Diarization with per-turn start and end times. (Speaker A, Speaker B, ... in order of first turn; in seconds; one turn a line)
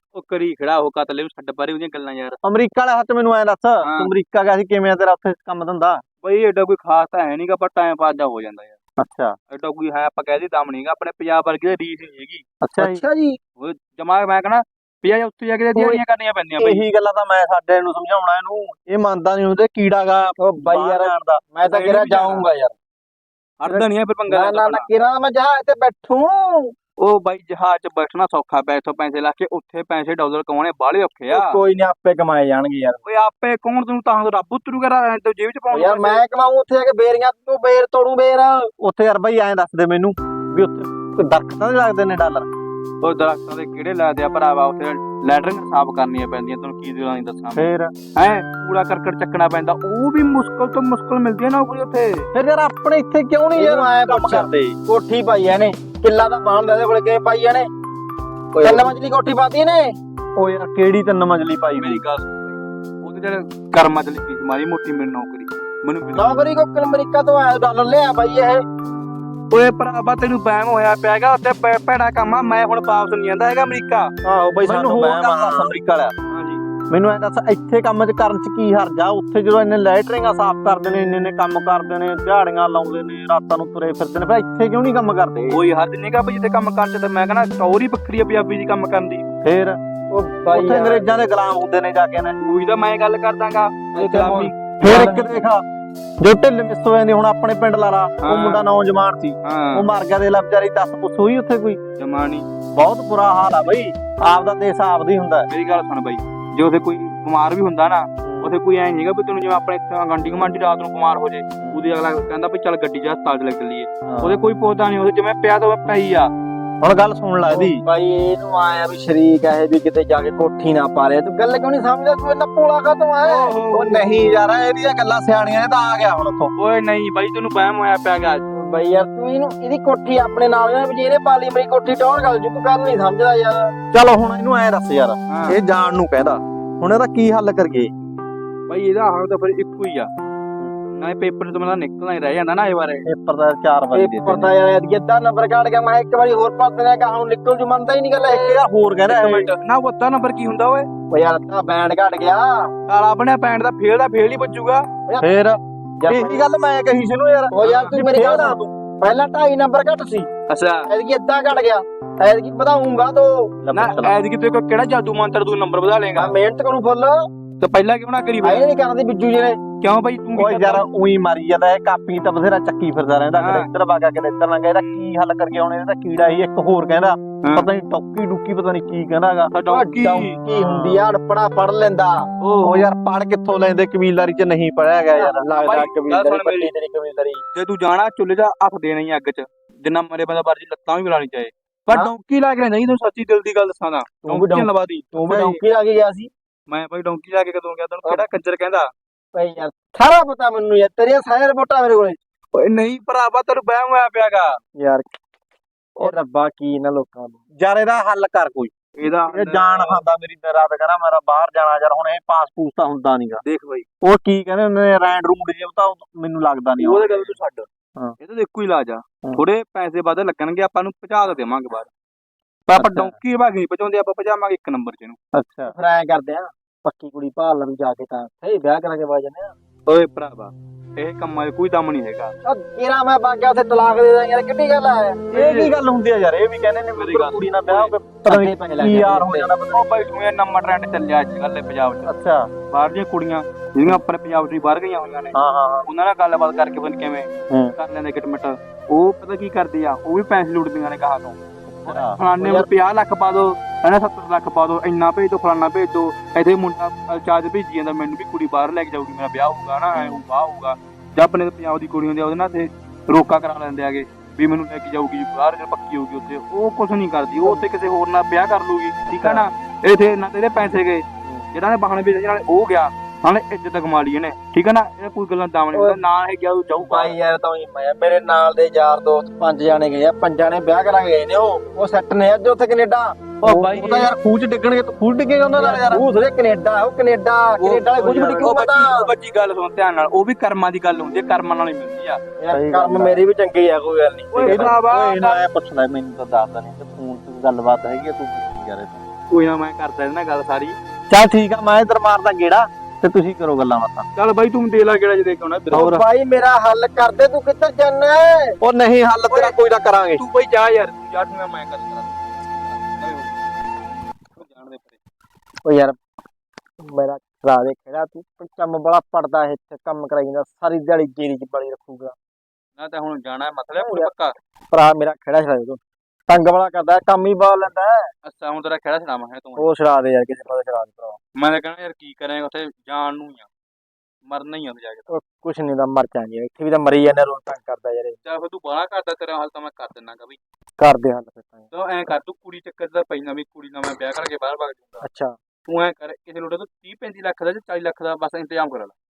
Speaker A: 0.1-2.4
Speaker B: 2.4-6.0
Speaker A: 3.8-4.1
Speaker A: 6.2-8.8
Speaker B: 9.0-9.4
Speaker A: 9.5-12.4
Speaker B: 12.6-13.0
Speaker C: 12.8-13.4
Speaker A: 13.6-16.8
Speaker B: 16.6-21.4
Speaker C: 20.4-22.7
Speaker A: 21.6-22.4
Speaker A: 23.6-24.9
Speaker C: 23.7-26.7
Speaker A: 27.0-31.6
Speaker C: 31.3-33.0
Speaker A: 33.0-36.3
Speaker C: 35.7-38.7
Speaker B: 38.8-42.5
Speaker A: 43.0-52.3
Speaker B: 47.5-47.9
Speaker B: 52.3-54.8
Speaker C: 53.5-57.7
Speaker A: 58.5-58.9
Speaker C: 58.6-59.9
Speaker B: 60.4-62.0
Speaker A: 61.8-66.4
Speaker C: 66.2-68.6
Speaker A: 69.5-74.1
Speaker C: 74.2-75.7
Speaker B: 74.6-76.1
Speaker A: 76.3-76.6
Speaker B: 76.9-85.6
Speaker A: 85.5-89.2
Speaker B: 89.4-89.8
Speaker C: 90.1-91.0
Speaker B: 90.5-92.3
Speaker A: 92.4-95.4
Speaker B: 93.9-95.6
Speaker C: 95.0-95.3
Speaker B: 96.2-101.8
Speaker A: 98.2-98.7
Speaker A: 99.4-99.9
Speaker A: 102.0-102.5
Speaker B: 102.7-105.5
Speaker A: 105.5-116.3
Speaker B: 108.2-108.5
Speaker B: 111.6-111.8
Speaker B: 114.1-114.4
Speaker B: 116.8-117.8
Speaker C: 117.5-123.5
Speaker A: 123.2-124.2
Speaker B: 123.7-126.5
Speaker A: 126.5-128.4
Speaker C: 128.5-133.7
Speaker B: 133.9-137.9
Speaker A: 135.3-135.6
Speaker A: 138.7-140.1
Speaker A: 140.9-143.1
Speaker B: 143.1-144.5
Speaker C: 143.9-148.6
Speaker B: 148.3-149.5
Speaker A: 149.1-150.9
Speaker C: 151.1-152.5
Speaker A: 152.9-154.8
Speaker B: 155.2-158.6
Speaker C: 156.0-156.4
Speaker C: 157.5-160.3
Speaker A: 157.6-158.0
Speaker A: 160.5-160.9
Speaker C: 160.8-163.5
Speaker B: 163.6-164.1
Speaker A: 163.7-166.3
Speaker C: 166.1-167.2
Speaker A: 167.6-168.6
Speaker C: 168.4-169.6
Speaker A: 169.8-170.9
Speaker B: 170.3-179.5
Speaker A: 173.3-173.7
Speaker A: 177.4-177.7
Speaker A: 179.5-180.4
Speaker C: 179.7-182.2
Speaker B: 180.4-181.0
Speaker A: 182.4-182.9
Speaker B: 182.6-185.5
Speaker C: 185.2-187.4
Speaker A: 185.5-186.7
Speaker A: 187.5-195.1
Speaker C: 194.2-196.3
Speaker B: 195.2-195.6
Speaker A: 196.7-198.9
Speaker C: 199.3-202.2
Speaker A: 202.5-204.6
Speaker C: 204.8-205.1
Speaker C: 206.0-207.4
Speaker B: 207.6-208.7
Speaker A: 209.0-210.0
Speaker B: 209.3-213.4
Speaker A: 213.4-213.8
Speaker B: 214.0-217.3
Speaker A: 216.8-217.7
Speaker A: 218.2-221.9
Speaker A: 222.7-225.2
Speaker B: 222.8-223.1
Speaker B: 225.3-225.7
Speaker C: 225.7-229.5
Speaker A: 229.9-232.3
Speaker C: 232.4-235.3
Speaker A: 235.3-235.8
Speaker B: 235.3-240.1
Speaker A: 236.9-237.9
Speaker C: 238.2-239.5
Speaker A: 239.7-242.1
Speaker B: 242.0-242.5
Speaker A: 242.7-277.1
Speaker B: 245.3-245.9
Speaker B: 247.5-247.7
Speaker B: 251.8-252.2
Speaker C: 252.4-252.7
Speaker C: 269.1-269.4
Speaker C: 275.7-276.0
Speaker C: 276.8-283.1
Speaker B: 283.4-286.0
Speaker A: 283.4-284.1
Speaker C: 285.6-289.1
Speaker A: 287.6-292.2
Speaker B: 288.0-288.5
Speaker C: 292.4-294.7
Speaker B: 292.5-293.2
Speaker A: 294.3-295.4
Speaker B: 294.4-299.0
Speaker A: 299.3-300.8
Speaker B: 301.1-304.1
Speaker A: 304.1-305.9
Speaker B: 305.7-306.0
Speaker C: 305.7-308.6
Speaker B: 308.6-310.2
Speaker A: 310.1-313.3
Speaker A: 314.4-315.0
Speaker C: 315.6-315.9
Speaker C: 316.9-322.1
Speaker A: 322.8-324.3
Speaker C: 323.8-324.1
Speaker C: 324.7-328.1
Speaker A: 328.2-329.7
Speaker C: 329.6-331.2
Speaker A: 331.4-333.5
Speaker A: 334.3-335.1
Speaker C: 335.1-338.2
Speaker A: 338.2-340.4
Speaker C: 340.8-341.7
Speaker A: 341.7-345.0
Speaker C: 345.0-345.3
Speaker A: 345.7-348.9